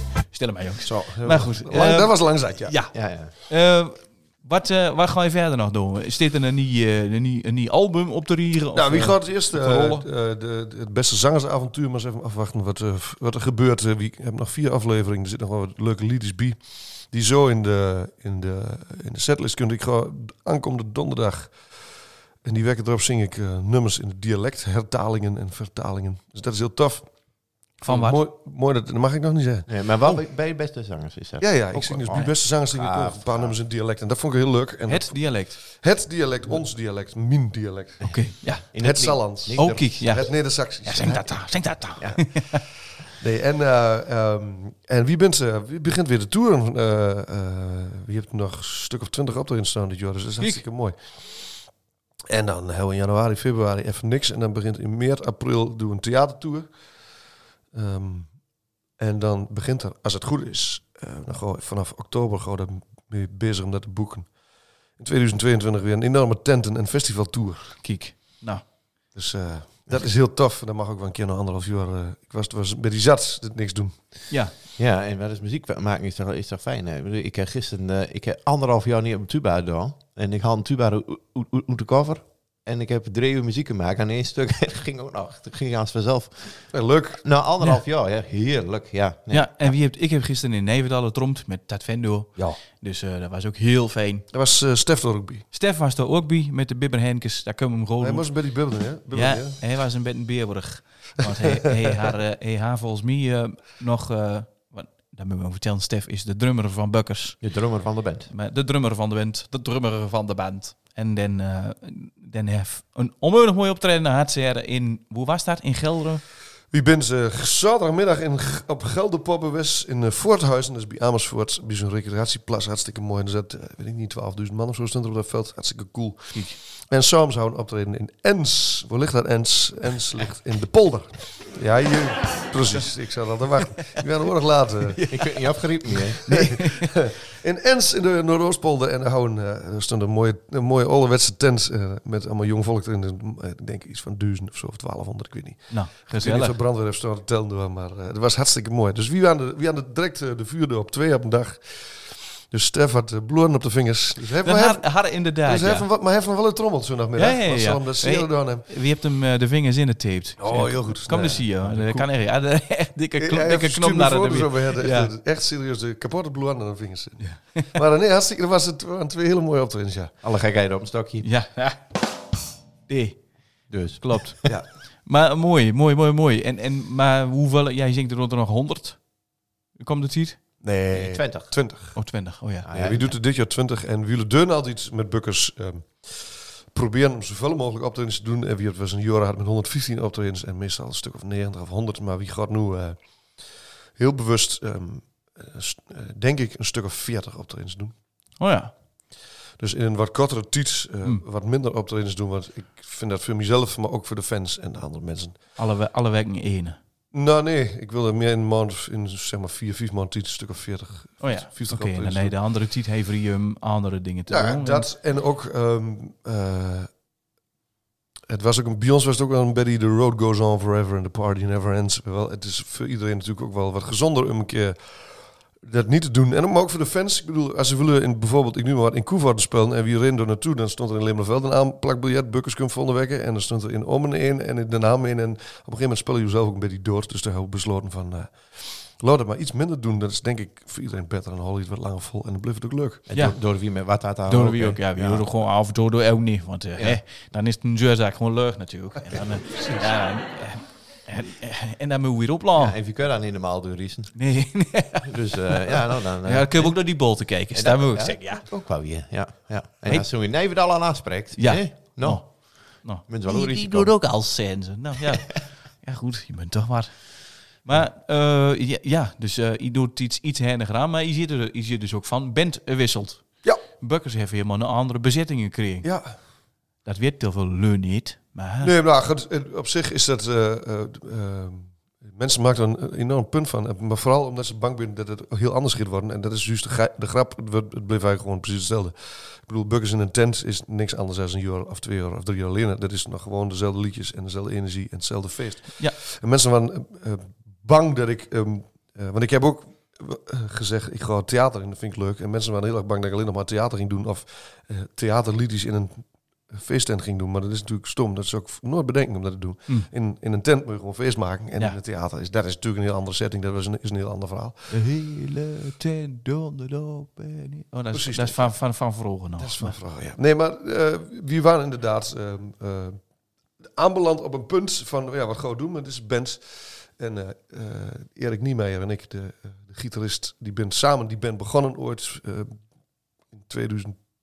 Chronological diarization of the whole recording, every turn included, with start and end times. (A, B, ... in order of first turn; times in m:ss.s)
0:00.2-0:10.0 A
0:01.0-0:02.9 B
0:02.9-0:03.3 C
0:08.7-0:29.7 B
0:27.8-0:28.2 A
0:29.7-0:33.6 C
0:31.4-0:42.6 B
0:34.9-0:35.8 A
0:38.0-0:40.3 C
0:38.0-0:42.6 A
0:42.0-0:42.3 C
0:43.1-0:51.7 B
0:52.3-0:56.8 B
0:57.7-1:04.4 B
1:04.9-1:07.8 B
1:07.8-1:08.7 A
1:09.1-1:14.1 B
1:14.8-1:29.8 C
1:26.7-1:27.2 B
1:29.3-1:34.3 A
1:34.3-1:35.4 B
1:35.5-1:56.3 A
1:38.0-1:39.6 B
1:47.4-1:48.3 C
1:56.7-2:15.1 B
2:06.3-2:06.6 A
2:14.9-2:16.9 A
2:15.1-2:16.4 C
2:16.5-2:38.6 B
2:25.7-2:26.6 A
2:34.4-2:35.9 A
2:37.2-2:45.1 A
2:40.4-2:42.1 B
2:41.1-2:41.8 C
2:43.2-2:50.1 B
2:47.2-2:47.7 A
2:50.2-2:51.2 C
2:51.2-2:52.1 A
2:52.9-3:00.5 A
2:53.7-2:54.5 C
3:00.6-3:17.9 B
3:00.9-3:01.6 C
3:01.9-3:02.7 A
3:02.6-3:03.1 C
3:18.4-3:18.7 A
3:19.6-3:25.4 B
3:25.6-3:26.8 A
3:27.1-3:32.4 B
3:31.2-3:34.9 A
3:34.3-3:36.9 B
3:38.3-4:03.1 B
4:03.1-4:05.2 C
4:03.1-4:12.8 A
4:06.8-4:07.0 C
4:12.6-4:24.4 C
4:14.1-4:18.4 A
4:21.3-4:38.7 A
4:35.8-4:36.2 B
4:38.6-5:14.8 B
5:14.7-5:19.8 A
5:17.9-5:18.8 B
5:19.4-5:23.1 B
5:23.6-5:32.6 B
5:33.3-5:34.0 B